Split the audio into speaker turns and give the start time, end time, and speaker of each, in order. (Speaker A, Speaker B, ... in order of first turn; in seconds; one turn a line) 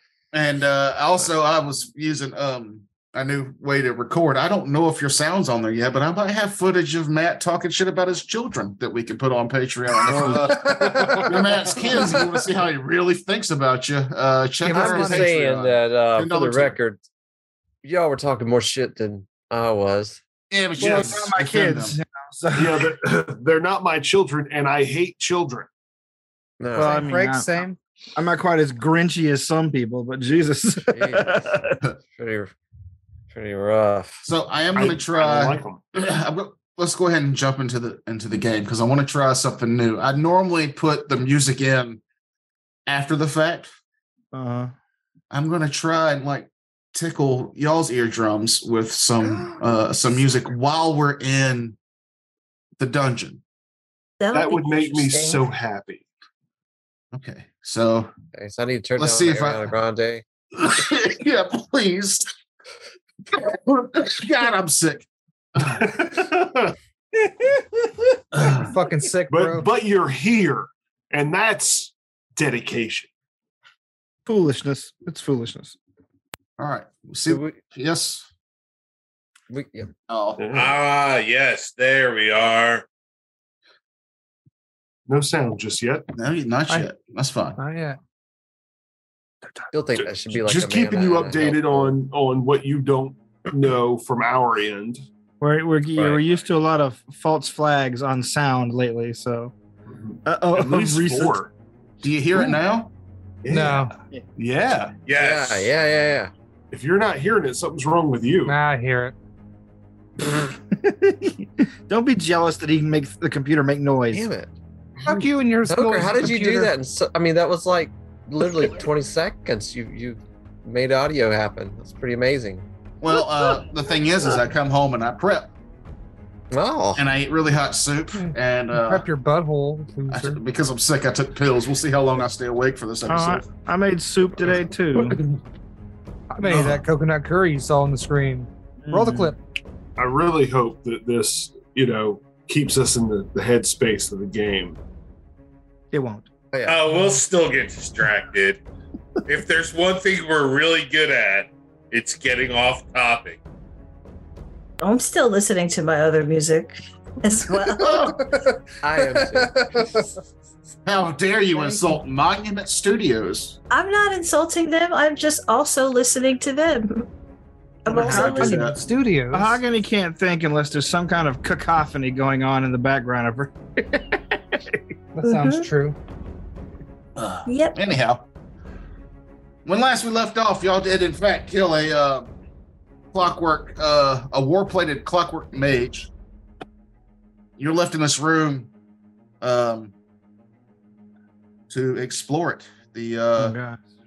Speaker A: 0.3-16.8
Speaker B: 10.1-10.4
Speaker C: 10.5-11.3
Speaker D: 11.0-11.9
Speaker C: 14.6-15.4
Speaker E: 14.7-17.0
Speaker E: 17.8-20.2
Speaker A: 20.5-22.0
Speaker D: 20.8-21.2
Speaker B: 20.8-22.9
Speaker D: 22.5-25.7
Speaker E: 26.6-27.1
Speaker B: 26.7-27.6
Speaker C: 26.8-27.8
Speaker B: 28.1-31.8
Speaker E: 30.9-32.5
Speaker E: 33.3-34.2
Speaker A: 34.2-42.0
Speaker D: 34.7-35.8
Speaker A: 42.9-43.7
Speaker B: 44.3-44.7
Speaker A: 45.3-51.8
Speaker A: 52.8-53.4
Speaker F: 54.2-55.4
Speaker D: 54.3-56.0
Speaker A: 57.1-58.1
Speaker E: 58.3-60.2
Speaker A: 59.0-59.7
Speaker A: 60.5-62.3
Speaker A: 63.3-65.1
Speaker A: 65.6-66.0
Speaker D: 65.6-66.7
Speaker A: 68.3-68.7
Speaker C: 68.4-69.7
Speaker D: 69.3-73.1
Speaker B: 74.2-75.8
Speaker A: 76.6-78.3
Speaker E: 77.3-77.6
Speaker E: 79.5-79.9
Speaker A: 80.1-80.4
Speaker D: 80.4-80.8
Speaker G: 80.5-82.8
Speaker D: 85.1-86.1
Speaker A: 86.1-87.6
Speaker C: 87.6-88.0
Speaker E: 89.7-92.0
Speaker D: 89.9-95.0
Speaker B: 95.4-99.5
Speaker E: 95.9-96.3
Speaker D: 99.9-101.5
Speaker B: 100.2-101.4
Speaker A: 102.0-102.9
Speaker D: 103.4-104.9
Speaker C: 103.5-103.9
Speaker G: 105.1-105.7
Speaker E: 105.1-106.3
Speaker D: 106.7-108.6
Speaker C: 108.5-109.1
Speaker B: 110.3-114.3
Speaker E: 114.1-114.5
Speaker C: 115.0-116.7
Speaker E: 115.6-122.7
Speaker A: 123.0-125.5
Speaker E: 126.5-127.1
Speaker A: 126.9-129.0
Speaker C: 128.1-130.4
Speaker A: 130.1-133.5
Speaker B: 133.1-135.2
Speaker C: 136.3-139.4
Speaker B: 138.8-139.3
Speaker D: 140.0-144.8
Speaker B: 145.9-146.3
Speaker E: 146.5-146.8
Speaker G: 146.6-148.6
Speaker C: 146.9-147.2
Speaker G: 149.2-153.4
Speaker F: 154.8-158.1
Speaker A: 157.8-158.2
Speaker C: 158.0-160.1
Speaker E: 158.8-159.6
Speaker A: 160.8-163.6
Speaker C: 161.5-162.0
Speaker F: 163.7-167.1
Speaker F: 167.8-168.6
Speaker A: 167.9-168.8
Speaker C: 168.0-169.6
Speaker B: 169.3-174.8
Speaker C: 175.1-175.9
Speaker F: 175.2-175.7
Speaker A: 177.2-178.2
Speaker F: 177.4-177.8
Speaker A: 179.6-182.3
Speaker A: 183.1-186.1
Speaker A: 187.6-188.7
Speaker A: 189.4-189.9
Speaker A: 191.7-193.6
Speaker B: 193.3-193.8